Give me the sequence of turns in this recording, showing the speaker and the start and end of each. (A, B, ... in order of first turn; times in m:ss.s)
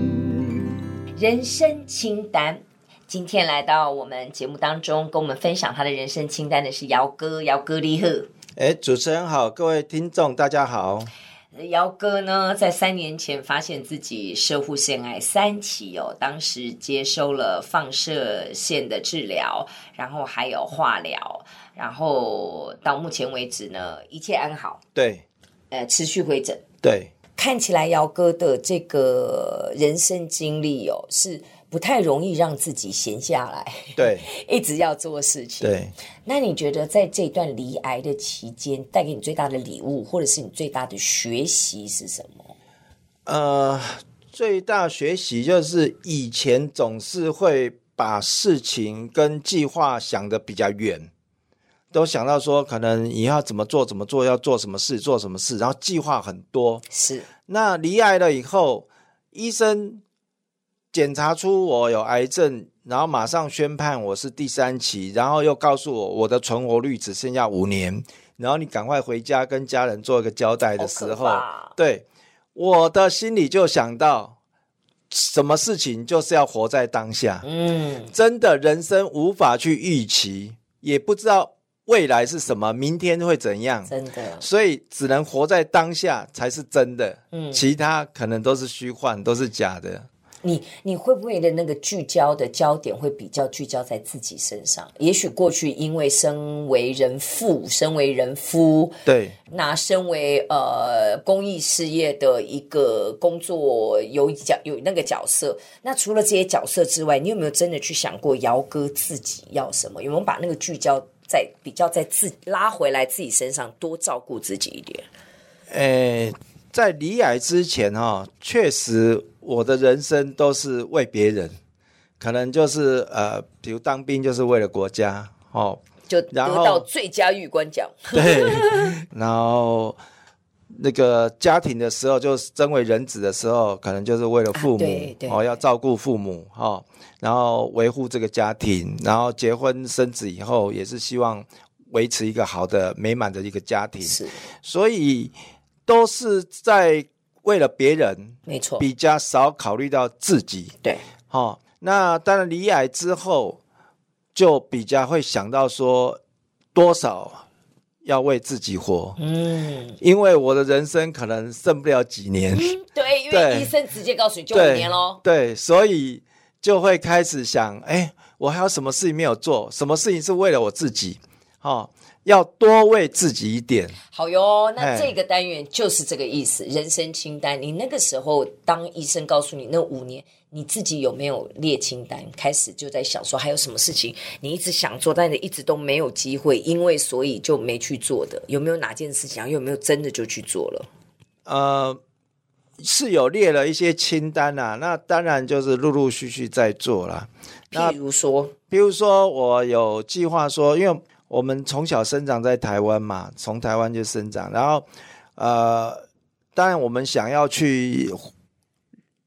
0:01.2-0:08.3 A
0:08.6-0:11.1 B
0:11.5-0:24.8 A
0:24.9-0:25.2 B
0:25.7-0:26.6 A
0:26.8-0:27.1 B
0:27.4-0:42.5 A
0:34.0-0:34.3 B
0:35.6-0:35.9 B
0:43.2-0:51.1 B
0:51.9-0:56.8 B
0:56.9-0:57.3 A
0:57.5-1:00.0 B
1:00.9-1:14.3 B
1:10.8-1:11.7 A
1:15.1-1:17.4 B
1:17.4-1:18.1 A
1:18.1-1:30.1 B
1:23.9-1:24.5 A
1:27.3-1:27.6 A
1:30.4-1:55.0 A
1:39.0-1:39.4 B
1:55.7-2:01.6 B
2:02.2-2:06.8 B
2:06.1-2:08.9 A
2:08.1-2:10.0 B
2:10.7-2:25.3 B
2:14.5-2:15.6 A
2:24.0-2:24.4 A
2:25.8-2:30.7 B
2:28.5-2:28.8 A
2:31.3-2:33.6 B
2:34.3-2:36.2 B
2:36.7-2:37.4 B
2:38.0-2:39.2 B
2:39.2-2:40.0 A
2:40.0-2:42.8 B
2:42.5-2:45.2 A
2:43.3-2:43.7 B
2:44.5-2:54.0 B
2:54.1-3:10.9 A
2:54.8-2:55.1 B
3:11.4-3:12.0 B
3:12.8-3:18.0 B
3:17.7-3:18.5 A
3:18.7-3:26.0 B
3:26.6-3:28.3 B